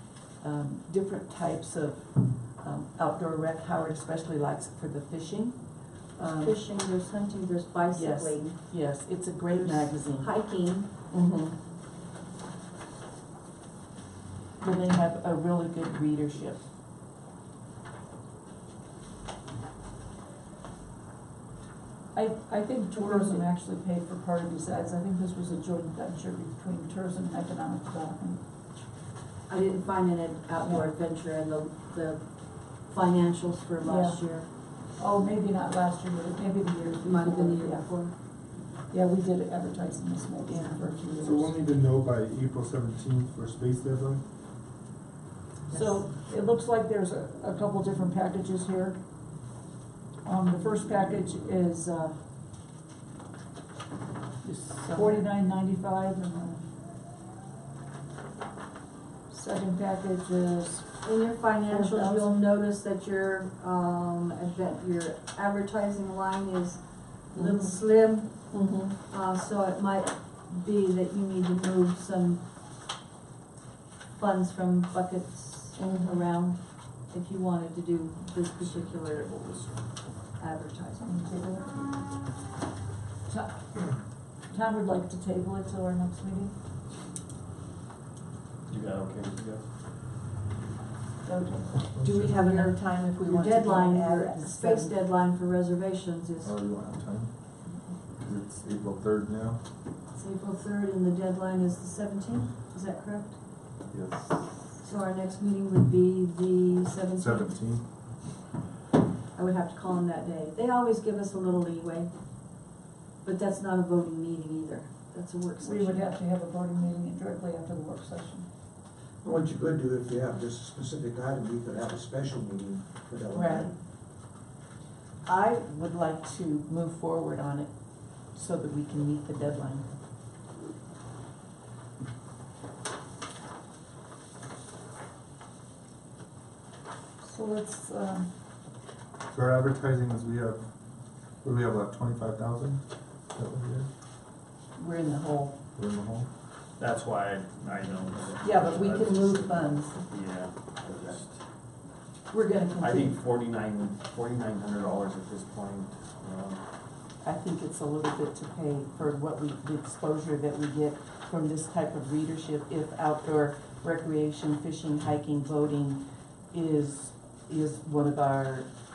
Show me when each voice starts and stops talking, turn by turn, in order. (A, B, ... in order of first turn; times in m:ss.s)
0:00.4-0:05.6 A
0:06.2-0:06.6 A
0:06.2-0:08.6 B
0:07.9-0:10.3 A
0:09.5-0:10.9 B
0:11.1-0:11.6 A
0:14.6-0:16.6 A
0:22.1-0:28.4 C
0:23.1-0:23.3 B
0:29.5-0:34.5 B
0:30.6-0:30.9 C
0:33.8-0:34.2 C
0:34.9-0:37.9 C
0:37.0-0:38.1 B
0:38.9-0:41.6 C
0:40.5-0:41.2 A
0:41.2-0:44.2 D
0:45.7-0:49.0 C
0:50.2-0:52.2 C
0:54.4-0:55.2 A
0:54.9-0:56.6 C
0:59.3-1:00.9 C
1:01.0-1:08.5 B
1:01.7-1:02.4 C
1:07.3-1:07.8 A
1:08.5-1:09.0 A
1:09.1-1:12.4 B
1:14.2-1:19.3 B
1:15.8-1:16.1 A
1:18.6-1:19.9 E
1:20.4-1:21.1 B
1:21.0-1:21.8 C
1:23.3-1:23.9 C
1:24.5-1:26.5 C
1:28.7-1:29.7 E
1:31.2-1:31.9 C
1:31.9-1:32.3 D
1:32.0-1:35.0 A
1:32.1-1:36.5 B
1:36.4-1:37.3 D
1:38.2-1:39.6 D
1:40.1-1:43.4 B
1:44.8-1:47.6 B
1:47.2-1:47.8 D
1:49.3-1:52.1 B
1:53.2-1:56.1 B
1:55.6-1:58.4 C
1:59.2-2:03.8 F
2:03.3-2:03.7 A
2:05.2-2:09.9 A
2:17.2-2:18.3 C
2:19.3-2:20.6 D
2:21.4-2:23.9 D
2:24.8-2:25.5 A
2:25.7-2:26.3 D
2:26.8-2:31.4 E
2:28.4-2:30.0 A
2:32.3-2:33.2 A
2:32.8-2:36.6 E
2:37.2-2:48.7 A